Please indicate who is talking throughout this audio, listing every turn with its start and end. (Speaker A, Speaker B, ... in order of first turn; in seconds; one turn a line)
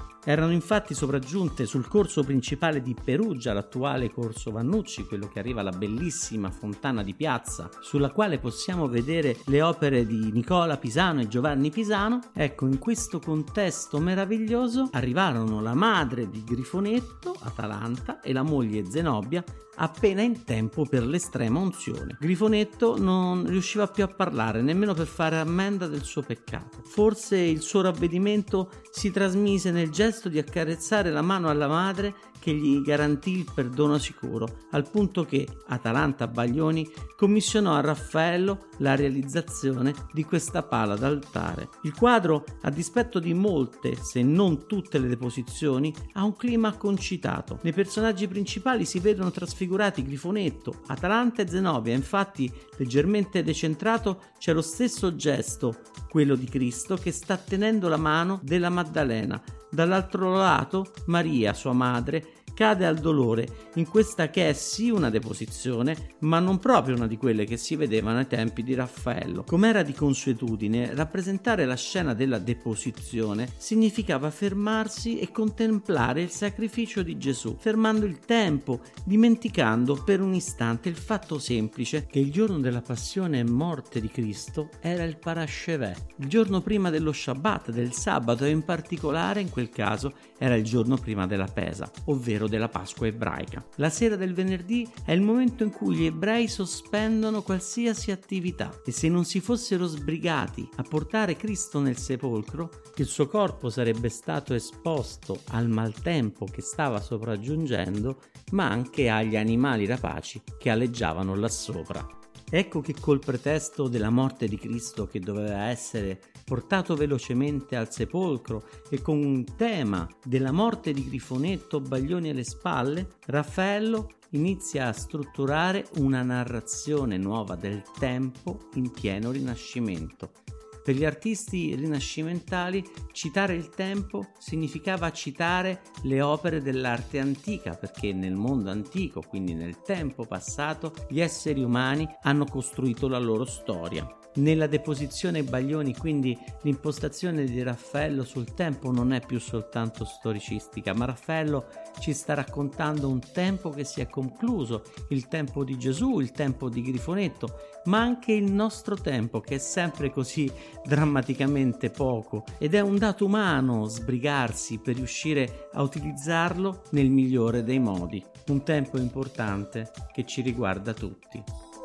Speaker A: 0.2-171.5